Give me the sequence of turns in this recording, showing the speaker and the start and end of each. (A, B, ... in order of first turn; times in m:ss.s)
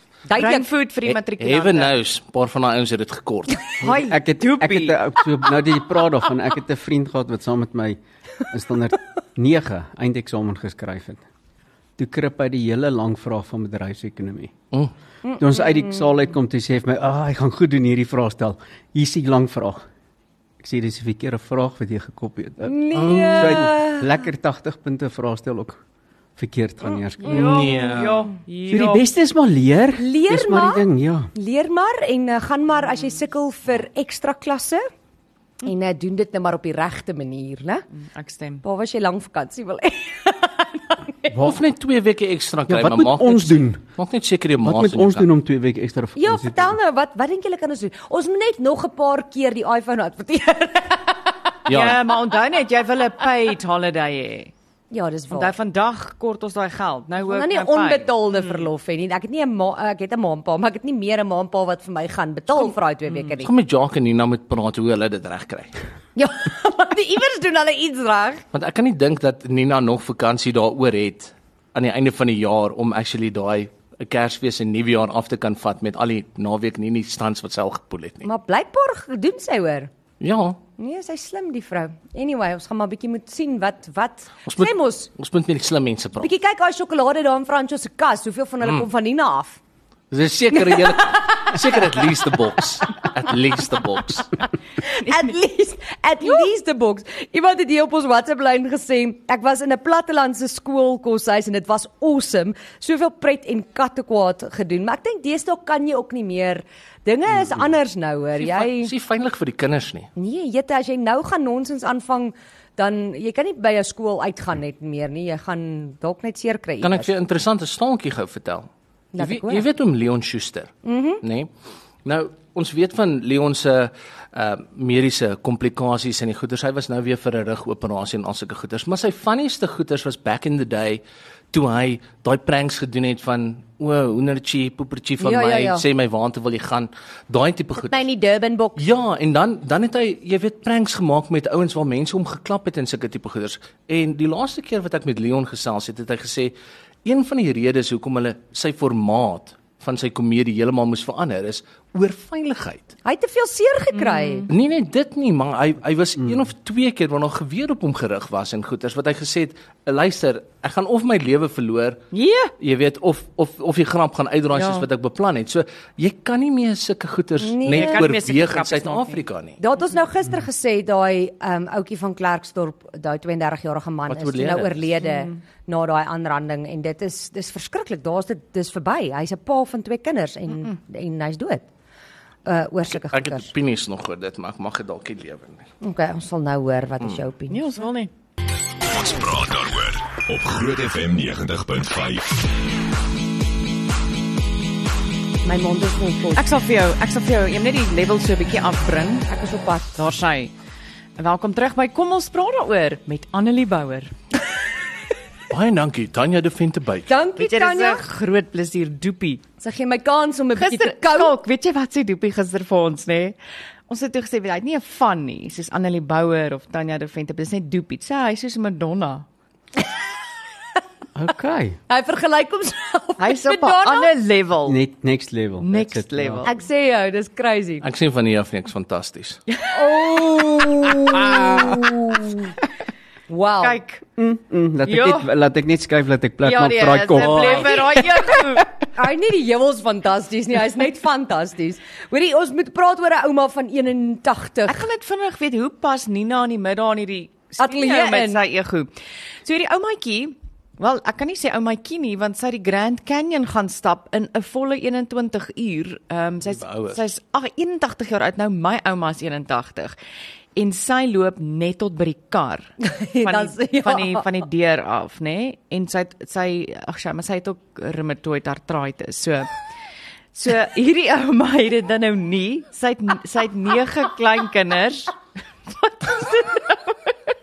0:00.3-0:00.7 A
0:00.4-0:01.9 B
0:01.1-0:03.9 C
0:03.8-0:05.0 B
0:03.9-0:11.2 D
0:12.0-0:14.5 D
0:15.2-0:16.0 A
0:15.4-0:19.8 D
0:20.6-0:25.8 D
0:22.6-0:24.1 A
0:22.9-0:23.7 C
0:26.4-0:28.0 D
0:27.2-0:29.0 B
0:27.3-0:28.3 C
0:28.7-0:31.3 D
0:30.0-0:34.9 A
0:35.6-0:37.8 A
0:38.0-0:38.6 B
0:38.6-0:41.4 A
0:41.4-0:45.3 C
0:42.7-0:43.8 D
0:44.6-0:46.8 D
0:46.2-0:51.3 A
0:51.7-0:52.0 C
0:51.7-0:54.5 B
0:54.9-0:55.5 A
0:55.3-0:58.6 B
0:57.2-1:03.5 A
1:03.4-1:05.8 C
1:06.2-1:08.4 A
1:08.5-1:18.3 C
1:18.2-1:19.9 A
1:20.2-1:20.6 C
1:20.8-1:25.1 A
1:24.4-1:26.3 C
1:26.2-1:29.6 A
1:30.1-1:34.4 C
1:30.5-1:31.8 A
1:34.8-1:48.9 A
1:35.0-1:35.3 B
1:48.4-1:50.1 C
1:50.2-1:57.1 A
1:56.8-2:01.5 C
1:59.1-1:59.6 A
2:00.8-2:01.2 A
2:02.0-2:18.0 C
2:15.2-2:15.8 A
2:17.8-2:18.8 A
2:18.8-2:32.9 C
2:33.0-2:34.5 A
2:34.0-2:34.5 B
2:34.5-2:42.0 C
2:42.1-2:42.5 B
2:42.6-2:49.6 C
2:44.5-2:44.9 B
2:47.4-2:48.1 A
2:47.7-2:49.2 B
2:49.6-3:01.7 A
2:54.1-2:54.8 C
3:02.4-3:03.5 A
3:02.9-3:05.7 C
3:05.8-3:07.7 A
3:07.5-3:08.1 B
3:08.8-3:12.5 E
3:15.4-3:16.4 A
3:16.4-3:19.3 B
3:19.3-3:20.0 A
3:19.9-3:20.5 B
3:21.2-3:24.1 B
3:25.5-3:27.1 C
3:27.1-3:28.0 A
3:27.4-3:29.4 B
3:29.6-3:31.4 A
3:30.6-3:33.4 B
3:33.9-3:39.2 B
3:41.1-3:41.8 D
3:41.9-3:44.1 A
3:43.2-3:44.8 B
3:44.6-3:46.5 D
3:45.6-3:46.6 B
3:46.4-3:47.9 A
3:47.8-3:49.4 C
3:49.7-3:52.5 A
3:53.3-3:53.8 A
3:53.6-3:54.0 B
3:54.2-3:58.4 D
3:54.8-3:55.3 B
3:56.4-3:58.7 B
3:59.0-4:04.9 A
4:04.7-4:08.9 B
4:07.6-4:08.4 A
4:09.4-4:20.0 B
4:16.4-4:17.0 C
4:20.6-4:29.5 B
4:22.8-4:24.3 A
4:30.3-4:35.2 B
4:35.7-4:36.8 B